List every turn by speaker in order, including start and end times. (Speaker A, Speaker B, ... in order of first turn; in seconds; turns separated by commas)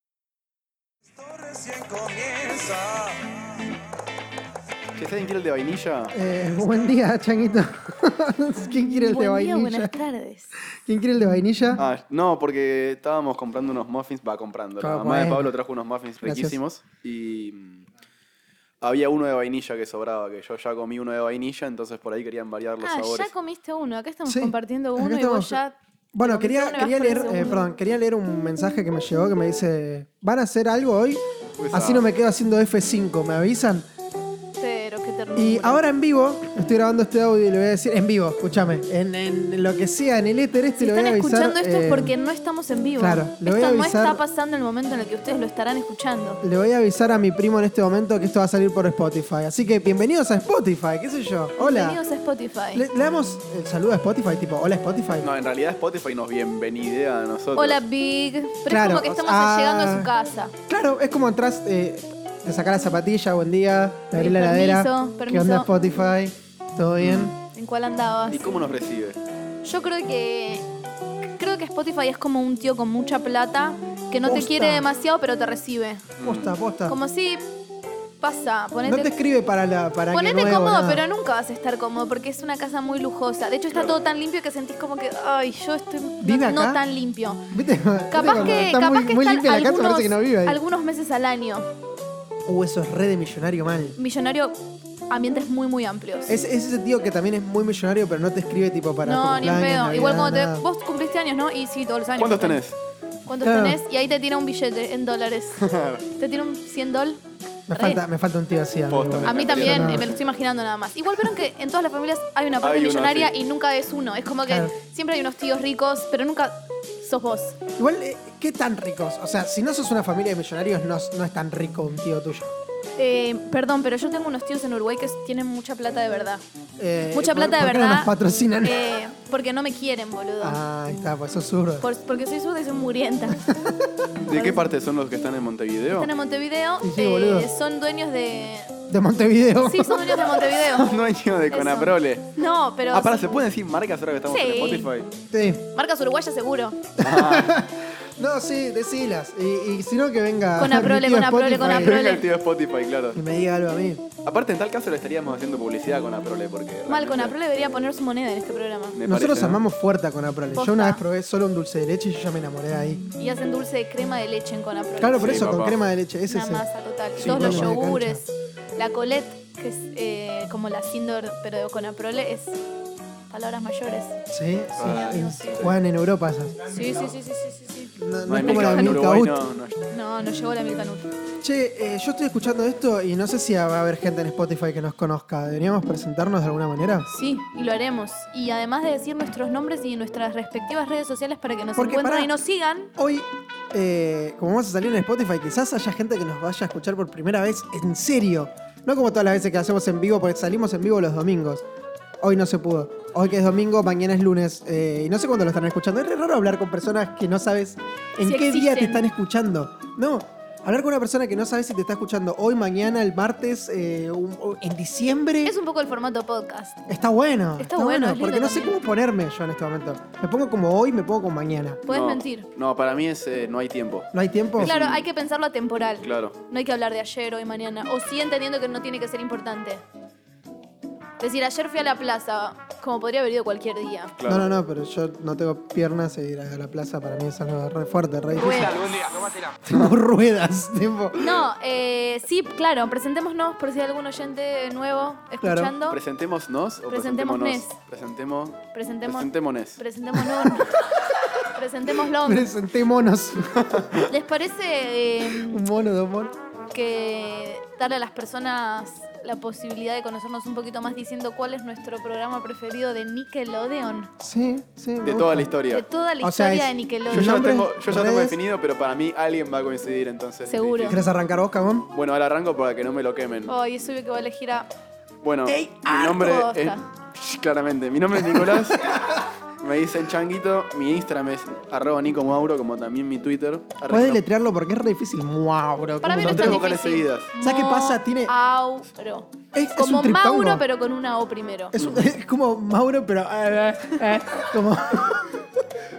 Speaker A: 1.5-2.8, Speaker A: 5.0-6.1, Speaker B: 6.1-9.9, Speaker C: 8.8-10.5, Speaker B: 10.7-11.8, Speaker A: 11.8-17.8, Speaker B: 14.8-15.5, Speaker B: 16.2-16.6, Speaker A: 18.8-23.3, Speaker C: 22.8-27.6, Speaker B: 24.2-25.6, Speaker B: 26.1-33.9, Speaker A: 31.6-32.1, Speaker C: 34.6-35.8, Speaker B: 35.4-42.1, Speaker C: 40.8-46.4, Speaker B: 43.0-44.2, Speaker B: 46.4-52.0, Speaker C: 51.6-52.8, Speaker B: 52.7-55.3, Speaker A: 55.2-57.8, Speaker C: 57.5-60.5, Speaker B: 58.7-60.1, Speaker B: 60.7-67.3, Speaker C: 64.1-65.7, Speaker A: 67.0-67.3, Speaker C: 67.5-68.5, Speaker A: 68.3-69.2, Speaker C: 69.6-70.7, Speaker C: 71.3-76.0, Speaker B: 74.2-74.9, Speaker A: 76.2-76.5, Speaker B: 76.2-77.0, Speaker C: 76.9-77.5, Speaker C: 78.2-79.1, Speaker B: 78.8-81.0, Speaker C: 80.1-87.4, Speaker B: 86.2-86.8, Speaker B: 87.5-90.6, Speaker C: 88.1-91.7, Speaker B: 92.5-94.0, Speaker C: 94.0-94.5, Speaker C: 95.1-96.4, Speaker B: 96.3-100.6, Speaker C: 99.0-102.6, Speaker A: 102.2-102.7, Speaker C: 103.2-107.2, Speaker B: 103.4-103.8, Speaker A: 105.6-106.0, Speaker B: 107.7-110.1, Speaker C: 107.7-108.0, Speaker A: 108.9-110.2, Speaker C: 109.2-117.6, Speaker A: 112.6-113.3, Speaker B: 114.5-114.7, Speaker B: 117.8-122.5, Speaker C: 123.0-126.4, Speaker B: 126.8-128.9, Speaker C: 127.1-130.6, Speaker B: 130.4-131.8, Speaker C: 131.8-133.4, Speaker B: 133.3-134.1, Speaker A: 134.2-136.1, Speaker C: 134.3-134.5, Speaker C: 135.9-138.7, Speaker B: 136.8-137.5, Speaker B: 138.9-140.3, Speaker C: 139.6-140.9, Speaker A: 140.4-142.3, Speaker C: 141.5-143.2, Speaker A: 142.9-145.1, Speaker C: 144.3-144.9, Speaker B: 145.3-145.7, Speaker C: 145.7-146.8, Speaker B: 147.0-152.0, Speaker A: 147.0-147.5, Speaker C: 150.6-152.3, Speaker A: 151.7-153.2, Speaker B: 153.1-154.1, Speaker A: 154.2-157.3, Speaker C: 156.9-159.0, Speaker A: 158.9-159.6, Speaker B: 159.0-163.1, Speaker C: 160.5-161.0, Speaker C: 163.2-165.4, Speaker B: 165.0-166.6, Speaker A: 165.1-165.8, Speaker C: 166.3-172.6, Speaker B: 167.2-168.2, Speaker A: 167.2-167.6, Speaker C: 173.3-174.2, Speaker B: 174.3-176.8, Speaker A: 174.8-175.7, Speaker C: 174.9-175.3, Speaker C: 176.7-179.0, Speaker B: 178.0-179.4, Speaker A: 178.3-179.7, Speaker C: 179.8-181.1, Speaker B: 181.4-187.1, Speaker C: 187.1-192.9, Speaker B: 191.8-192.3, Speaker B: 192.9-201.6, Speaker B: 202.2-215.6, Speaker C: 208.2-209.1, Speaker C: 215.4-216.8, Speaker B: 216.9-221.8, Speaker C: 217.6-218.7, Speaker C: 221.9-222.5, Speaker A: 221.9-225.0, Speaker B: 224.1-224.8, Speaker C: 224.6-229.8, Speaker A: 226.0-226.3, Speaker C: 231.2-234.2, Speaker A: 234.2-234.5, Speaker B: 234.2-238.9, Speaker C: 238.4-239.0, Speaker B: 239.6-241.4, Speaker C: 241.2-246.0, Speaker B: 245.4-245.7, Speaker A: 245.9-249.8, Speaker C: 246.9-247.8, Speaker C: 248.7-252.5, Speaker B: 252.1-254.0, Speaker C: 254.1-255.6, Speaker B: 255.3-256.3, Speaker C: 256.7-264.1, Speaker B: 264.2-265.5, Speaker A: 265.0-265.8, Speaker C: 265.7-267.4, Speaker B: 266.2-268.4, Speaker A: 267.1-271.0, Speaker C: 270.5-271.0, Speaker B: 270.9-271.9, Speaker A: 271.9-273.5, Speaker C: 273.4-274.7, Speaker A: 275.2-284.2, Speaker B: 275.4-275.9, Speaker C: 275.9-276.8, Speaker B: 278.3-279.0, Speaker B: 283.9-286.7, Speaker A: 285.8-287.3, Speaker C: 286.0-291.8, Speaker B: 287.4-288.3, Speaker B: 289.5-290.6, Speaker B: 291.7-295.4, Speaker A: 291.7-292.1